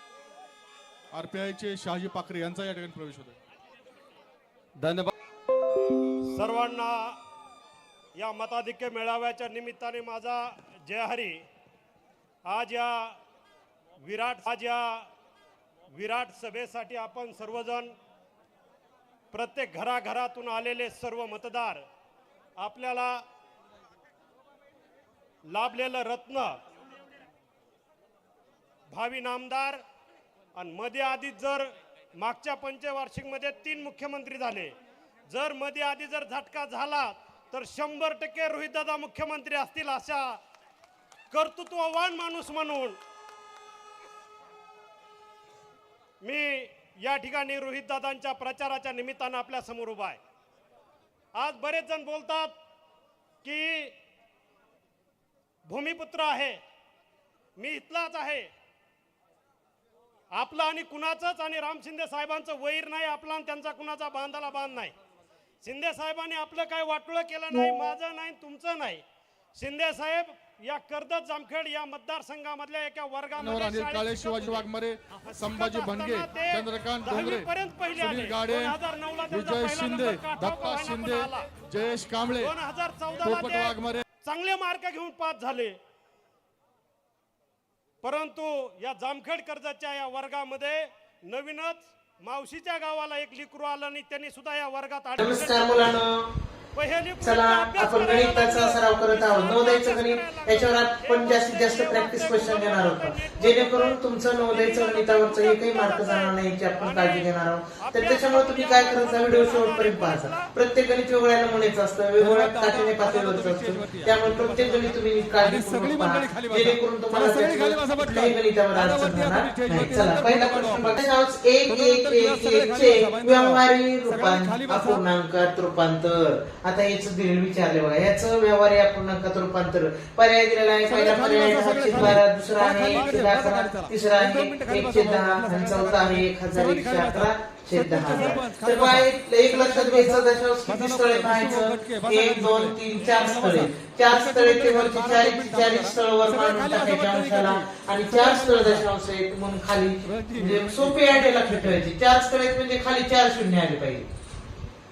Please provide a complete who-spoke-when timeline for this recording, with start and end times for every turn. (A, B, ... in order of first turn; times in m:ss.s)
0:01.1-0:03.4 A
0:04.8-0:05.1 B
0:06.3-0:07.2 C
0:08.2-0:11.4 C
0:12.4-0:13.2 C
0:14.0-0:15.1 C
0:15.9-0:17.9 C
0:19.3-0:21.8 C
0:22.6-0:23.2 C
0:25.5-0:26.5 C
0:28.9-0:29.8 C
0:30.6-0:34.7 C
0:35.3-0:40.4 C
0:41.3-0:43.0 C
0:46.2-0:50.2 C
0:51.3-0:52.5 C
0:53.4-0:54.0 C
0:55.7-0:56.6 C
0:57.6-0:58.5 C
1:00.3-1:04.9 C
1:05.6-1:09.0 C
1:09.6-1:21.6 C
1:13.4-1:18.8 A
1:19.3-1:22.6 A
1:22.3-1:25.8 C
1:23.1-1:24.0 A
1:28.0-1:36.0 C
1:35.2-1:36.3 D
1:36.7-1:50.5 C
1:37.2-2:34.1 D
1:52.2-1:54.6 B
1:55.4-1:58.2 B
1:58.8-2:01.0 B
2:01.7-2:03.3 B
2:04.2-2:04.8 B
2:10.9-2:20.1 B
2:20.8-2:22.8 B
2:25.1-2:25.6 B
2:26.7-2:27.5 B
2:28.3-2:28.8 B
2:30.2-2:31.0 B